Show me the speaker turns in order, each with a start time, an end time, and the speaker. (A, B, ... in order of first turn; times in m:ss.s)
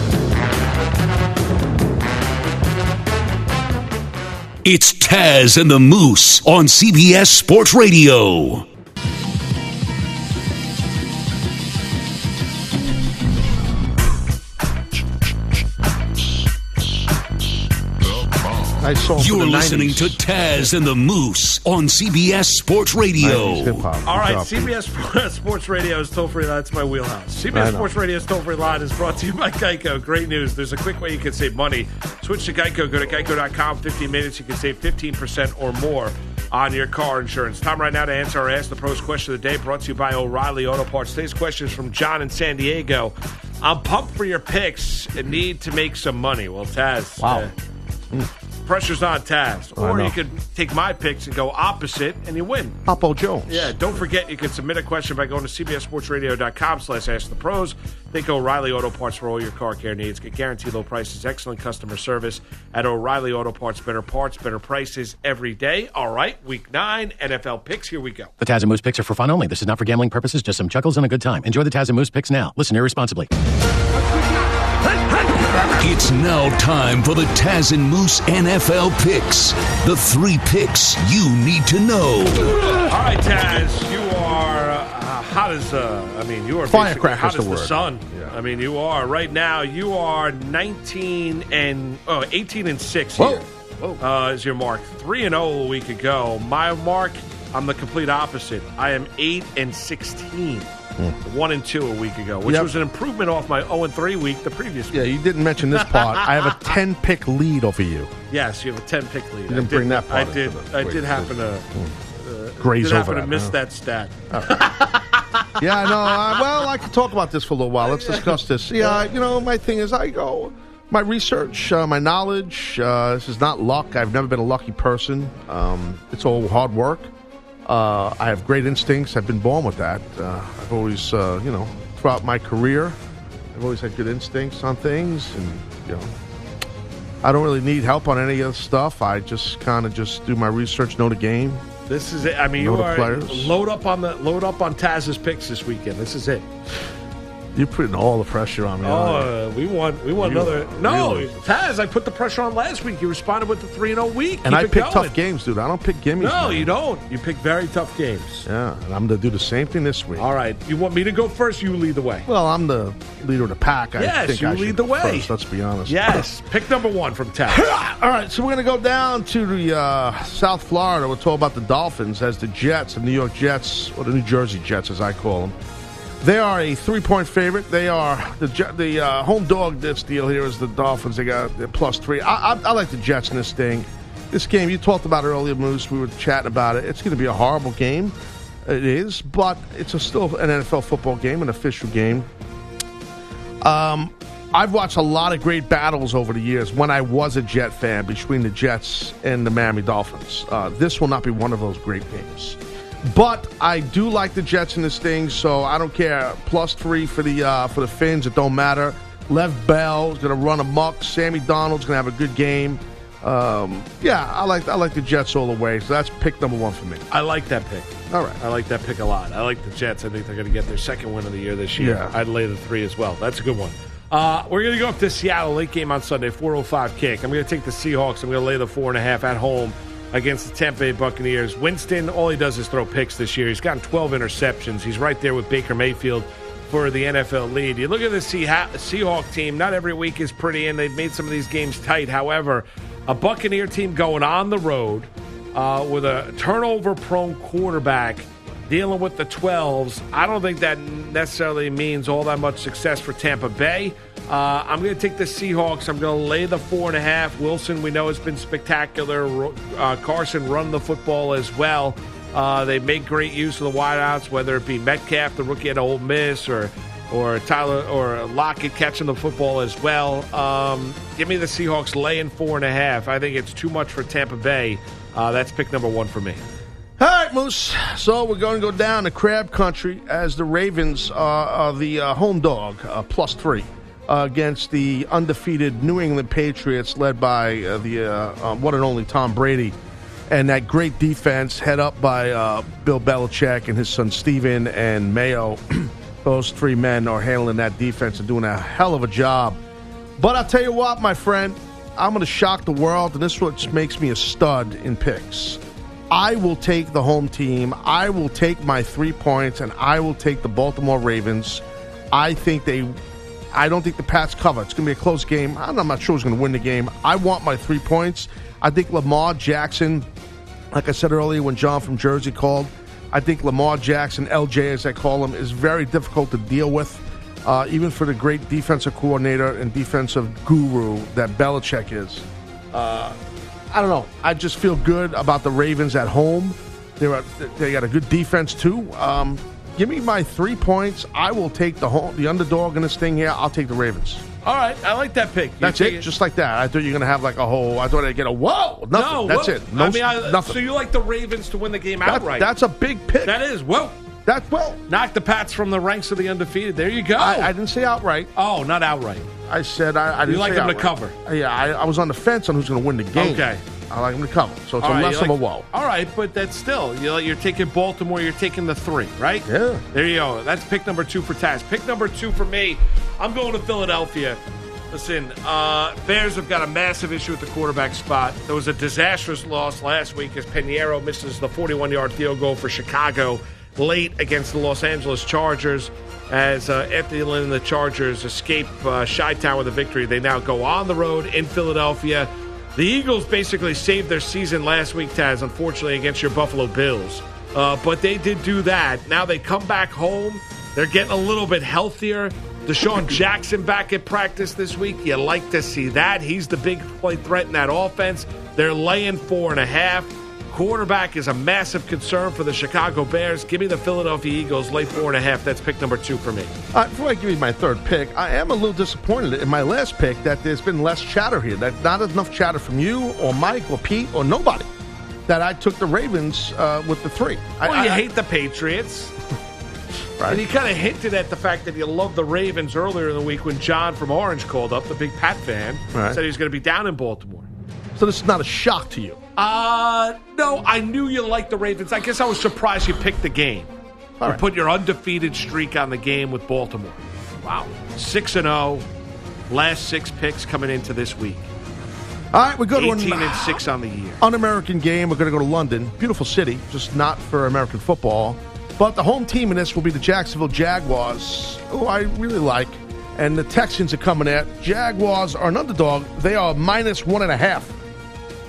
0:04.6-0:08.6 A
0:18.8-0:20.2 B
0:19.2-0:23.8 A
0:23.2-0:24.7 B
0:24.0-0:47.5 C
0:27.5-0:27.9 B
0:47.2-0:47.5 B
0:48.6-0:52.8 C
0:49.8-0:50.2 B
0:52.9-0:53.8 B
0:53.5-1:08.3 C
1:08.4-1:13.3 D
1:15.7-1:22.6 A
1:22.7-1:33.5 C
1:26.6-1:28.4 B
1:33.2-1:34.0 B
1:34.0-1:40.7 C
1:41.2-1:45.1 C
1:42.4-1:42.8 B
1:44.9-1:48.1 B
1:45.8-1:46.5 C
1:48.3-1:51.7 C
1:49.5-1:52.0 B
1:52.2-1:56.6 C
1:52.6-1:53.6 B
1:54.3-1:54.8 B
1:55.6-2:07.1 B
1:57.8-1:58.4 C
2:07.7-2:13.0 B
2:13.5-2:16.1 B
2:17.2-2:21.6 B
2:21.9-2:26.4 C
2:22.6-2:23.5 B
2:27.6-2:29.3 B
2:28.8-2:35.2 C
2:30.2-2:31.4 B
2:34.4-2:36.7 B
2:36.2-2:38.5 C
2:38.5-2:40.3 B
2:40.2-2:42.3 C
2:42.3-2:46.2 B
2:44.0-2:45.3 C
2:45.9-2:47.7 C
2:47.5-2:55.6 B
2:56.2-3:12.3 B
3:13.6-3:37.0 B
3:37.1-4:36.4 C
3:38.1-3:38.4 B
3:41.8-3:42.2 B
4:37.0-4:49.8 B
4:50.3-4:59.6 B
5:00.2-5:13.0 B
5:13.5-5:20.1 B
5:20.7-5:33.2 B
5:33.7-5:44.2 B
5:44.4-5:46.1 C
5:45.6-5:50.6 B
5:48.9-5:52.5 C
5:52.0-5:53.4 B
5:53.2-5:54.0 C
5:54.3-5:54.8 B
5:54.9-5:57.5 C
5:57.2-5:58.3 B
5:58.4-5:59.3 C
5:59.5-6:05.7 B
6:00.2-6:01.1 C
6:03.1-6:03.6 C
6:04.8-6:14.4 C
6:09.5-6:09.8 B
6:14.9-6:56.5 C
6:56.7-7:04.7 B
7:05.3-7:08.1 B
7:07.6-7:09.2 C
7:10.3-7:17.5 C
7:15.9-7:16.2 B
7:18.0-7:19.2 B
7:19.4-7:23.7 C
7:24.2-7:27.0 C
7:27.4-7:27.8 B
7:27.9-7:28.9 C
7:29.5-7:31.5 C
7:32.3-7:33.6 B
7:32.8-7:34.2 C
7:34.2-7:47.8 B